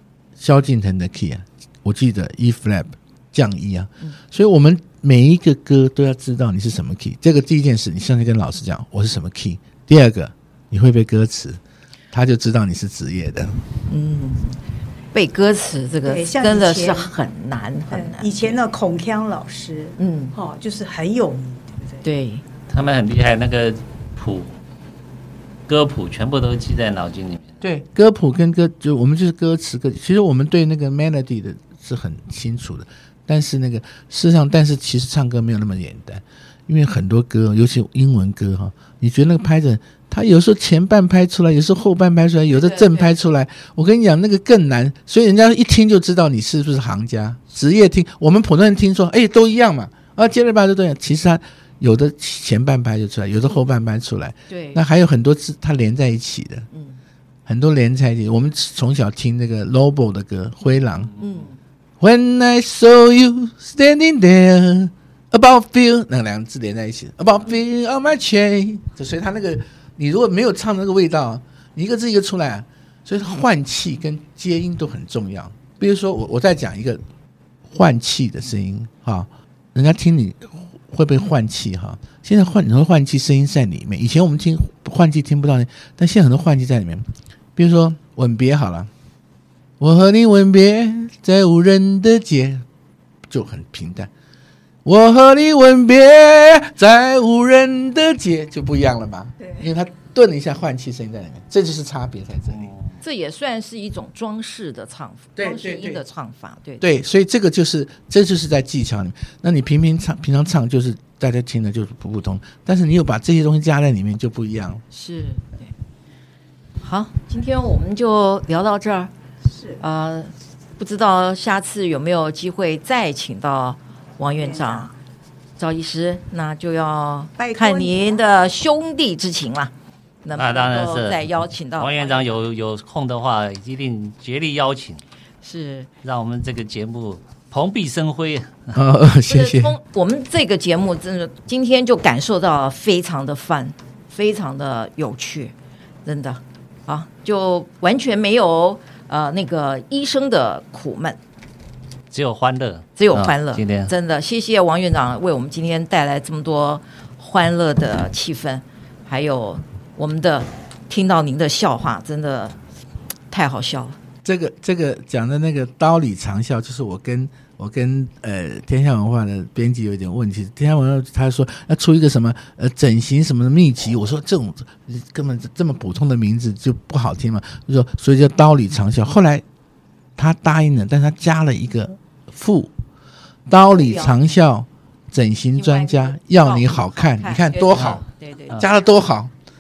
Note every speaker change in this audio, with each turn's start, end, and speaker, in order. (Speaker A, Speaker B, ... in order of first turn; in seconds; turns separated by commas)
Speaker A: 0.4-11.6, Speaker A: 12.1-13.6, Speaker B: 13.9-14.6, Speaker B: 15.1-18.6, Speaker C: 16.0-17.1, Speaker C: 17.9-22.1, Speaker B: 20.0-20.4, Speaker B: 22.0-22.4, Speaker D: 22.7-24.5, Speaker D: 25.7-27.6, Speaker A: 27.6-56.7, Speaker B: 42.5-43.2, Speaker B: 54.5-54.8, Speaker B: 56.7-57.0, Speaker A: 57.5-61.1, Speaker B: 61.2-61.6, Speaker A: 62.0-77.0, Speaker A: 77.7-88.9, Speaker A: 89.8-92.7, Speaker A: 93.3-94.1, Speaker A: 94.8-102.7, Speaker C: 99.4-99.7, Speaker B: 103.0-106.8, Speaker A: 105.4-106.0, Speaker A: 106.8-114.8, Speaker B: 114.9-115.7, Speaker B: 116.8-119.1, Speaker C: 119.5-119.8, Speaker B: 119.8-124.9, Speaker C: 124.3-125.0, Speaker B: 125.6-129.7, Speaker C: 127.4-128.2, Speaker B: 130.2-132.4, Speaker D: 130.4-135.0, Speaker B: 135.4-135.9, Speaker D: 136.0-138.8, Speaker A: 138.7-139.8, Speaker B: 139.3-151.2, Speaker D: 152.1-153.9, Speaker B: 153.0-162.6, Speaker B: 163.3-164.0, Speaker A: 164.2-179.4, Speaker A: 180.2-182.7, Speaker A: 183.5-189.3, Speaker B: 183.7-184.2, Speaker B: 185.6-188.7, Speaker D: 187.8-188.0